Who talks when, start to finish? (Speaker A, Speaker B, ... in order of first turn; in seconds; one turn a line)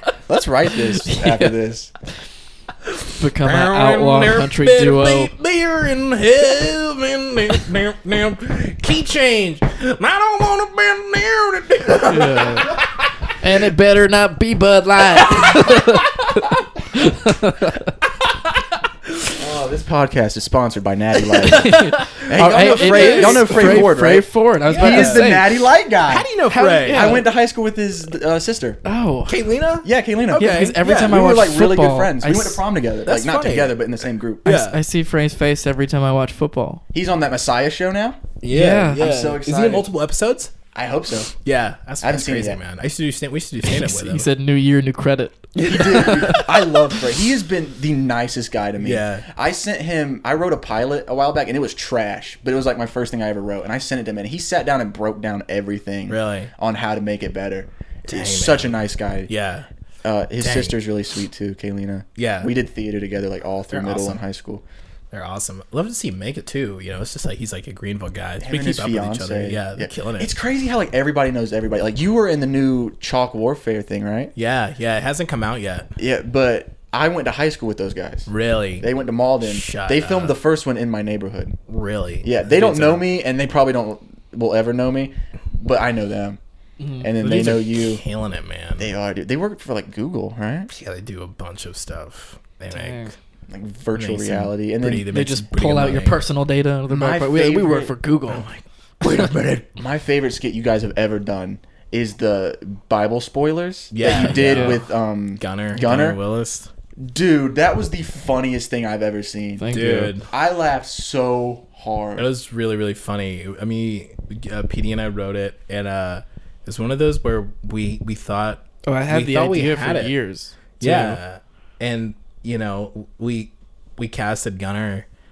Speaker A: 0.3-1.9
Speaker B: 1.0-1.5
Speaker C: 2.9-12.8
Speaker B: 3.2-5.3
Speaker B: 12.0-12.8
Speaker B: 13.3-17.9
Speaker C: 15.2-15.8
Speaker A: 19.3-26.3
Speaker C: 21.3-23.9
Speaker B: 21.5-25.6
Speaker C: 24.7-25.3
Speaker C: 26.1-27.2
Speaker B: 26.5-27.3
Speaker A: 26.9-28.8
Speaker B: 28.8-29.4
Speaker C: 29.3-31.2
Speaker A: 29.8-34.5
Speaker B: 30.3-32.6
Speaker C: 33.0-33.8
Speaker C: 34.4-34.8
Speaker B: 34.4-36.8
Speaker A: 36.9-38.2
Speaker C: 38.4-40.5
Speaker B: 38.5-39.1
Speaker A: 38.9-39.9
Speaker A: 40.7-41.3
Speaker C: 41.4-44.3
Speaker A: 42.0-42.6
Speaker B: 43.6-47.0
Speaker A: 45.5-59.3
Speaker C: 48.8-49.3
Speaker C: 56.1-56.5
Speaker C: 58.0-59.7
Speaker A: 60.0-64.6
Speaker C: 60.4-60.8
Speaker C: 62.2-62.5
Speaker C: 63.7-64.2
Speaker C: 65.1-70.3
Speaker A: 68.4-74.3
Speaker C: 74.3-75.9
Speaker A: 76.0-81.6
Speaker C: 78.3-78.9
Speaker C: 79.4-80.4
Speaker C: 81.7-83.0
Speaker A: 82.2-86.4
Speaker B: 86.8-87.1
Speaker A: 87.0-88.0
Speaker C: 87.2-88.9
Speaker A: 88.8-90.7
Speaker C: 90.7-93.1
Speaker B: 92.7-93.1
Speaker A: 93.5-95.1
Speaker C: 93.9-96.2
Speaker B: 95.1-98.5
Speaker A: 96.9-97.9
Speaker C: 98.3-99.7
Speaker A: 99.7-106.2
Speaker C: 103.9-106.7
Speaker B: 104.0-104.8
Speaker A: 107.0-109.6
Speaker B: 109.6-110.1
Speaker C: 109.7-110.3
Speaker A: 110.3-112.3
Speaker C: 112.2-120.1
Speaker B: 118.8-121.2
Speaker C: 120.8-125.0